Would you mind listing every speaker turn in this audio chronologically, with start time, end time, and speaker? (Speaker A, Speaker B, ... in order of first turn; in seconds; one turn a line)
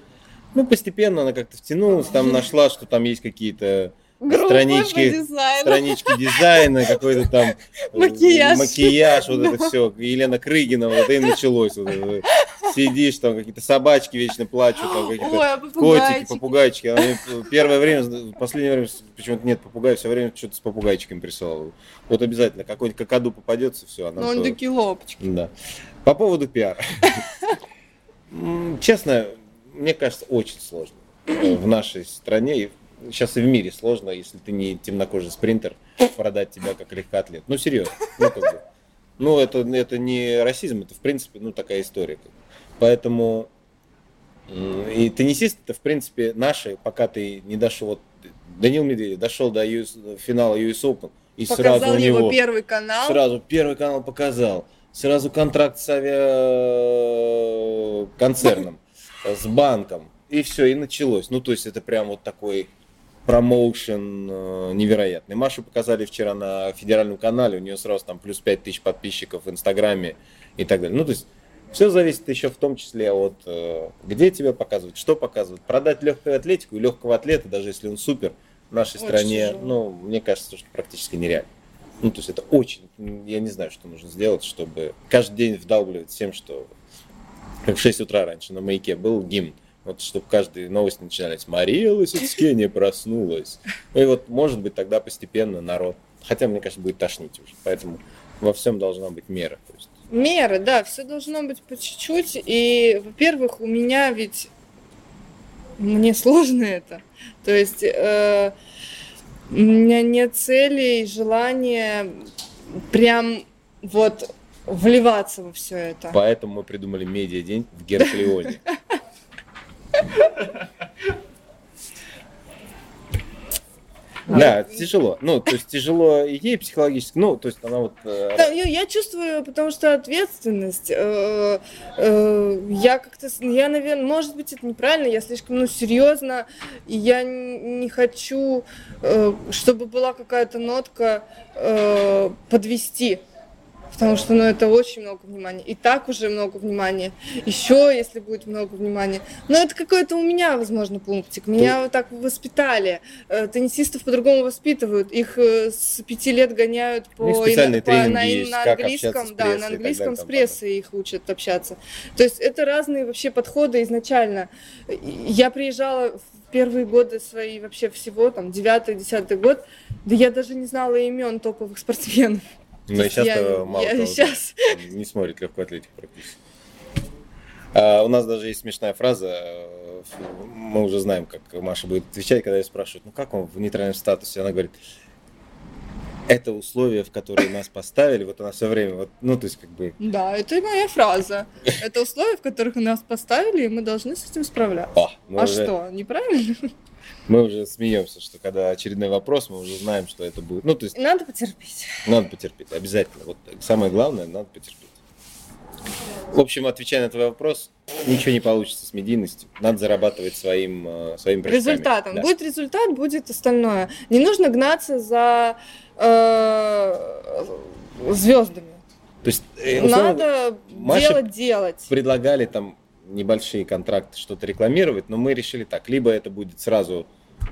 Speaker A: 0.5-24.6
Speaker B: 2.0-2.5
Speaker B: 4.2-9.7
Speaker B: 14.8-17.3
Speaker B: 24.2-25.2
Speaker A: 25.2-25.5
Speaker A: 26.0-27.2
Speaker A: 28.3-38.6
Speaker A: 39.2-43.5
Speaker A: 44.5-52.4
Speaker B: 51.5-53.2
Speaker A: 53.1-62.7
Speaker A: 63.3-81.5
Speaker B: 79.0-79.8
Speaker A: 82.0-86.7
Speaker A: 87.7-99.9
Speaker B: 100.1-104.5
Speaker B: 105.8-108.5
Speaker B: 109.5-112.2
Speaker B: 112.9-116.2
Speaker A: 116.1-118.6
Speaker A: 124.3-128.6
Speaker B: 124.3-124.8
Speaker B: 128.4-143.2
Speaker B: 143.9-172.4
Speaker A: 157.2-160.6
Speaker A: 172.9-176.4
Speaker B: 172.9-174.8
Speaker A: 177.7-184.8
Speaker A: 186.3-190.0
Speaker B: 190.0-196.7
Speaker A: 194.9-195.7
Speaker A: 197.3-200.9
Speaker B: 200.9-202.1
Speaker A: 202.1-205.0
Speaker A: 206.3-212.3
Speaker B: 211.5-218.8
Speaker A: 219.2-221.3
Speaker B: 219.8-221.9
Speaker A: 221.9-227.1